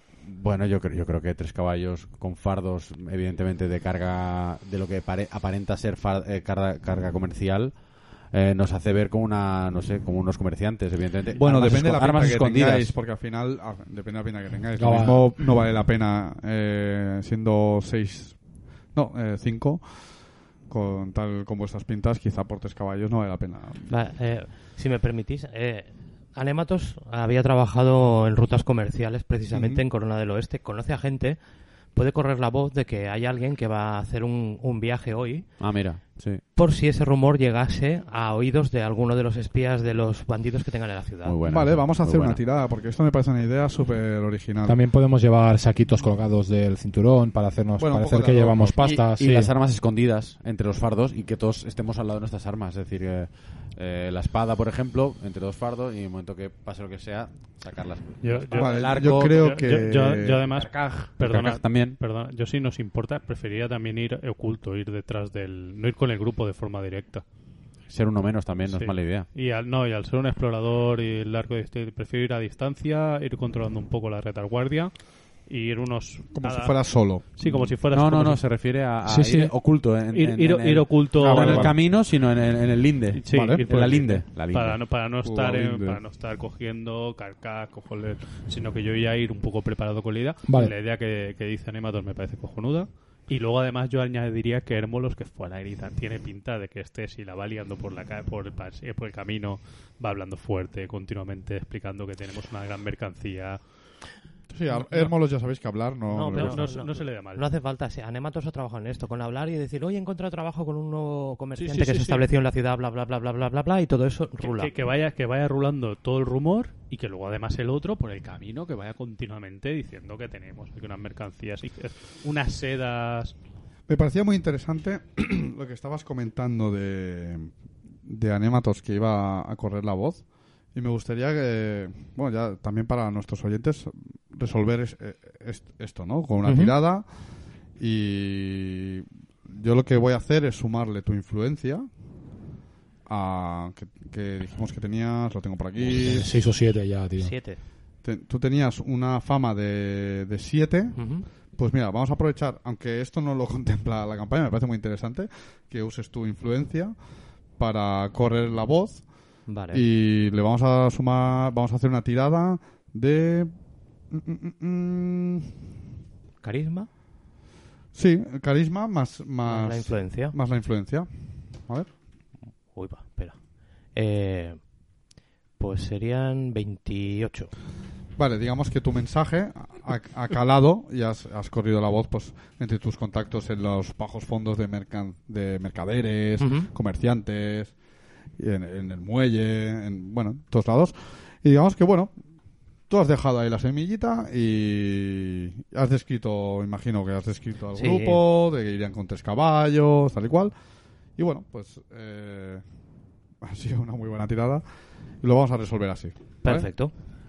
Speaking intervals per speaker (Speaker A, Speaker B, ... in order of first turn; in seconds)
Speaker A: 0.2-12.9, 35.6-36.4, 41.2-42.4, 49.0-59.5, 60.5-62.0, 67.9-69.3, 77.5-84.8
Speaker B: 11.3-18.4, 18.9-20.2, 20.7-23.9, 29.5-29.8, 41.5-44.8, 47.8-49.0, 58.5-60.4, 76.3-77.5, 81.2-81.8, 83.3-84.0, 85.2-86.0, 104.5-106.7, 123.9-127.5, 128.0-137.1, 137.8-141.9, 143.1-146.4, 148.0-151.0, 151.5-156.9, 157.6-159.1, 159.7-163.5, 164.1-165.6, 167.9-171.9, 178.2-187.7, 188.4-192.1, 192.9-200.5, 201.2-202.6, 203.4-204.6, 205.2-206.7
Speaker C: 14.8-15.4, 44.6-49.5, 79.0-79.5, 90.4-90.7, 145.8-147.3
Speaker D: 23.9-31.4, 31.9-35.6, 36.5-41.4, 106.1-114.7, 136.5-136.7, 147.2-147.6, 150.9-151.3, 159.5-159.8, 166.4-166.9, 169.4-170.3, 172.7-174.7, 175.6-177.5, 186.4-186.7, 197.7-198.2, 206.4-206.9
Speaker E: 58.2-67.2, 68.7-74.9, 75.4-78.4, 80.1-81.8, 83.1-103.6, 104.7-105.1, 106.3-107.4, 111.5-112.2, 114.4-123.3